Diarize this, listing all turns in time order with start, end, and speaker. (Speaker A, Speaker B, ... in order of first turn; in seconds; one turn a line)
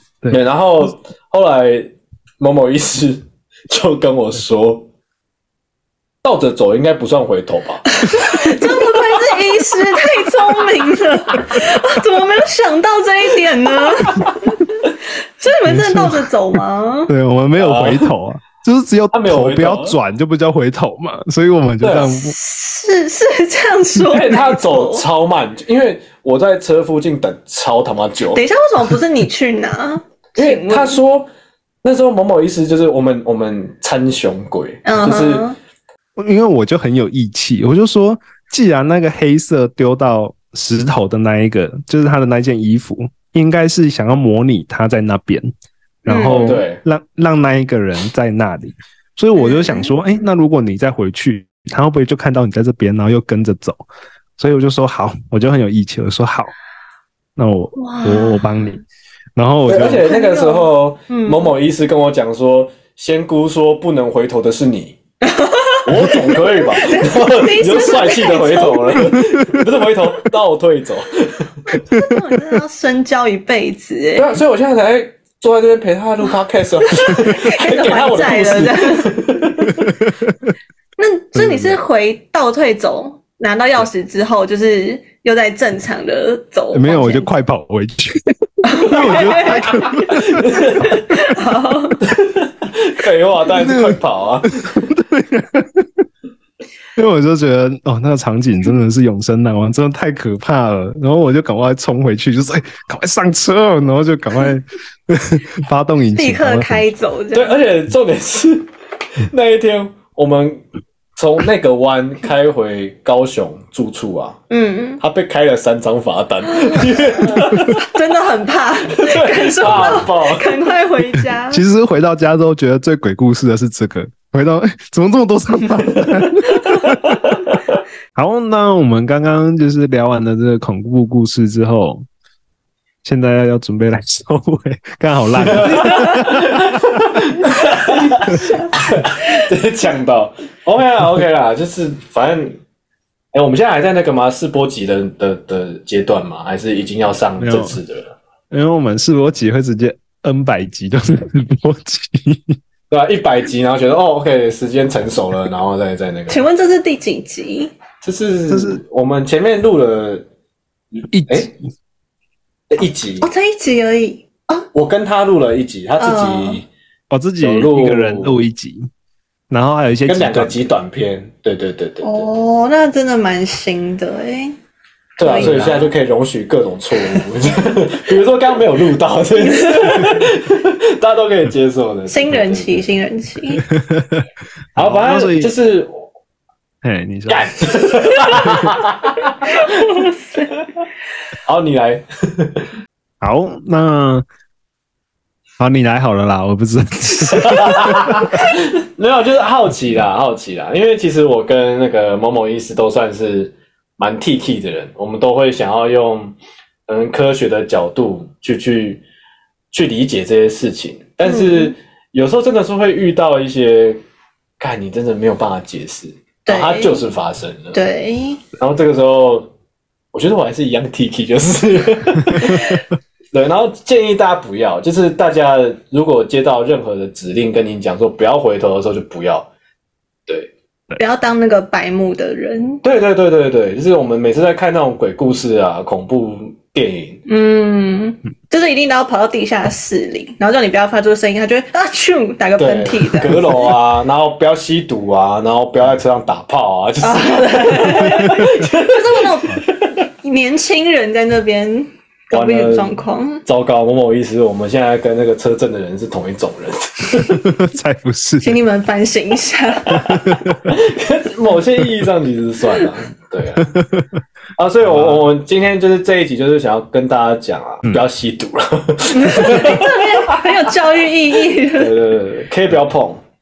Speaker A: 0.3-4.9
Speaker A: 6.2-9.3
Speaker B: 8.0-17.1
Speaker C: 15.6-16.3
Speaker C: 17.1-22.3
Speaker A: 17.6-18.1
Speaker A: 19.1-20.0
Speaker A: 21.8-22.1
Speaker B: 22.1-25.0
Speaker A: 24.1-28.4
Speaker B: 28.3-31.0
Speaker A: 30.4-31.3
Speaker A: 31.8-35.5
Speaker B: 34.8-35.5
Speaker C: 36.2-45.5
Speaker C: 46.0-53.8
Speaker B: 46.0-46.6
Speaker A: 46.2-46.8
Speaker B: 49.4-49.9
Speaker C: 54.4-56.5
Speaker C: 57.4-58.8
Speaker B: 57.8-58.8
Speaker C: 59.4-60.1
Speaker A: 59.6-65.0
Speaker B: 60.0-61.5
Speaker B: 65.2-69.2
Speaker A: 65.8-71.5
Speaker B: 71.7-74.4
Speaker A: 74.2-79.9
Speaker B: 76.8-79.1
Speaker C: 79.7-80.5
Speaker B: 81.0-87.3
Speaker C: 81.3-81.8
Speaker C: 86.7-90.4
Speaker B: 88.6-92.0
Speaker A: 89.0-91.0
Speaker A: 92.0-94.7
Speaker C: 93.5-94.0
Speaker C: 94.5-96.0
Speaker C: 97.0-106.8
Speaker B: 106.1-107.6
Speaker A: 107.3-108.7
Speaker A: 109.2-110.6
Speaker A: 111.2-114.4
Speaker B: 114.5-115.0
Speaker A: 115.0-117.8
Speaker B: 116.4-121.6
Speaker A: 118.9-120.5
Speaker C: 119.7-120.0
Speaker C: 121.5-127.2
Speaker B: 126.4-126.8
Speaker A: 127.2-127.8
Speaker C: 128.1-132.1
Speaker C: 133.0-136.8
Speaker A: 135.4-142.6
Speaker B: 135.8-136.3
Speaker B: 137.4-139.4
Speaker A: 143.3-148.1
Speaker C: 147.4-147.8
Speaker C: 148.5-152.6
Speaker A: 152.9-156.5
Speaker B: 156.3-157.7
Speaker A: 158.0-160.3
Speaker C: 158.5-158.8
Speaker A: 161.0-161.5
Speaker C: 161.1-161.6
Speaker A: 162.7-163.3
Speaker B: 163.2-164.7
Speaker A: 164.7-166.7
Speaker B: 166.0-166.6
Speaker C: 167.1-168.9
Speaker A: 167.4-168.4
Speaker C: 169.5-170.6
Speaker A: 170.1-172.3
Speaker B: 172.0-174.6
Speaker B: 175.2-175.9
Speaker A: 175.2-182.8
Speaker C: 175.3-175.8
Speaker B: 177.0-177.2
Speaker B: 179.4-180.1
Speaker B: 182.1-183.7
Speaker C: 183.7-185.5
Speaker A: 184.8-186.0
Speaker C: 186.8-187.5
Speaker A: 187.3-189.5
Speaker B: 189.4-190.5
Speaker A: 191.4-192.6
Speaker C: 193.2-194.2
Speaker C: 195.6-198.3
Speaker A: 197.3-209.0
Speaker A: 209.7-214.0
Speaker B: 211.2-211.7
Speaker A: 214.6-217.8
Speaker B: 216.4-216.9
Speaker B: 217.7-218.4
Speaker A: 218.6-219.5
Speaker A: 220.1-229.5
Speaker B: 231.0-232.8
Speaker A: 232.8-237.2
Speaker B: 237.3-243.7
Speaker A: 242.6-250.0
Speaker B: 247.0-253.4
Speaker A: 252.3-257.5
Speaker C: 257.2-258.6
Speaker B: 258.4-260.2
Speaker C: 259.9-260.6
Speaker A: 260.7-263.7
Speaker C: 263.6-264.1
Speaker A: 264.6-270.6
Speaker C: 264.8-265.3
Speaker B: 269.1-271.9
Speaker A: 271.6-273.2